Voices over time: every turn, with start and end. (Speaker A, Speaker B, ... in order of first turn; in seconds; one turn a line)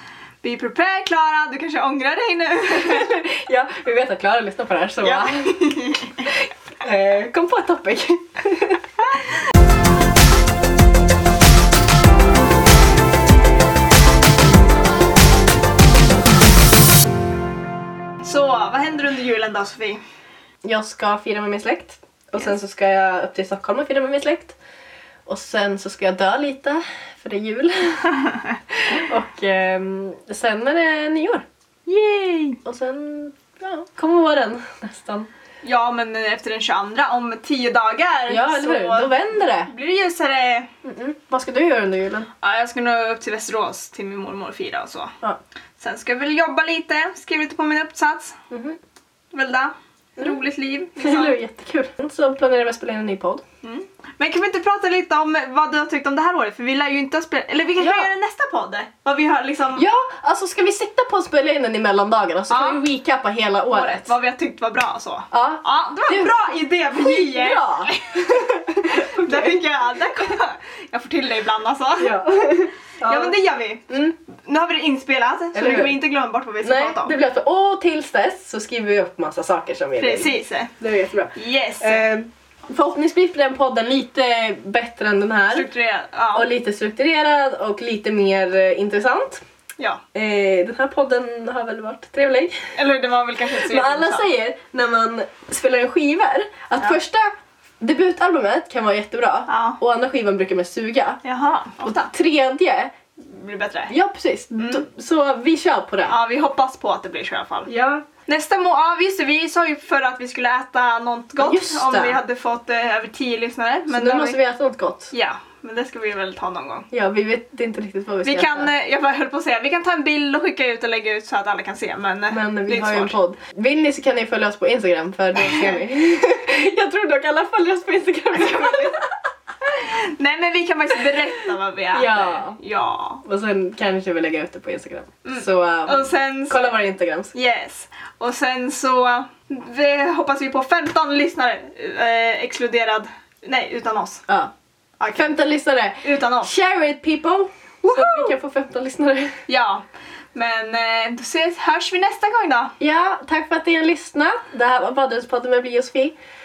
Speaker A: 0.4-3.2
Speaker B: 2.7-5.8
Speaker A: 5.0-6.2
Speaker B: 6.8-8.8
Speaker A: 18.2-20.0
Speaker B: 20.6-24.6
Speaker B: 25.3-28.1
Speaker A: 28.2-28.5
Speaker B: 28.7-31.4
Speaker A: 31.9-32.6
Speaker B: 32.6-35.3
Speaker A: 35.6-40.7
Speaker B: 38.3-39.7
Speaker B: 40.8-42.3
Speaker A: 42.4-45.1
Speaker A: 45.8-48.3
Speaker B: 48.5-48.8
Speaker A: 49.3-51.4
Speaker B: 51.0-53.4
Speaker A: 53.6-59.8
Speaker B: 57.8-58.1
Speaker B: 59.7-64.1
Speaker A: 62.5-62.8
Speaker A: 63.7-72.2
Speaker B: 65.3-69.6
Speaker B: 72.0-73.4
Speaker A: 73.0-77.1
Speaker B: 73.9-74.2
Speaker B: 75.5-76.0
Speaker B: 76.6-85.7
Speaker A: 80.0-80.7
Speaker A: 81.3-82.1
Speaker A: 85.5-86.5
Speaker B: 86.3-89.4
Speaker B: 90.1-92.6
Speaker A: 92.8-94.3
Speaker B: 93.6-101.2
Speaker A: 99.5-99.8
Speaker A: 101.2-102.1
Speaker B: 101.8-102.9
Speaker A: 103.2-103.9
Speaker B: 103.9-106.2
Speaker A: 104.6-104.8
Speaker A: 106.0-114.4
Speaker B: 107.7-108.0
Speaker B: 111.4-112.2
Speaker B: 113.9-115.1
Speaker A: 115.1-116.9
Speaker B: 116.9-118.7
Speaker A: 118.2-123.2
Speaker B: 122.3-129.1
Speaker A: 125.5-125.8
Speaker A: 128.3-128.9
Speaker A: 129.6-133.2
Speaker B: 131.9-132.6
Speaker B: 133.2-137.3
Speaker A: 135.2-136.7
Speaker A: 137.3-144.2
Speaker A: 145.0-145.3
Speaker B: 145.1-149.3
Speaker A: 146.0-146.5
Speaker A: 147.8-148.3
Speaker A: 149.5-152.7
Speaker B: 152.8-156.2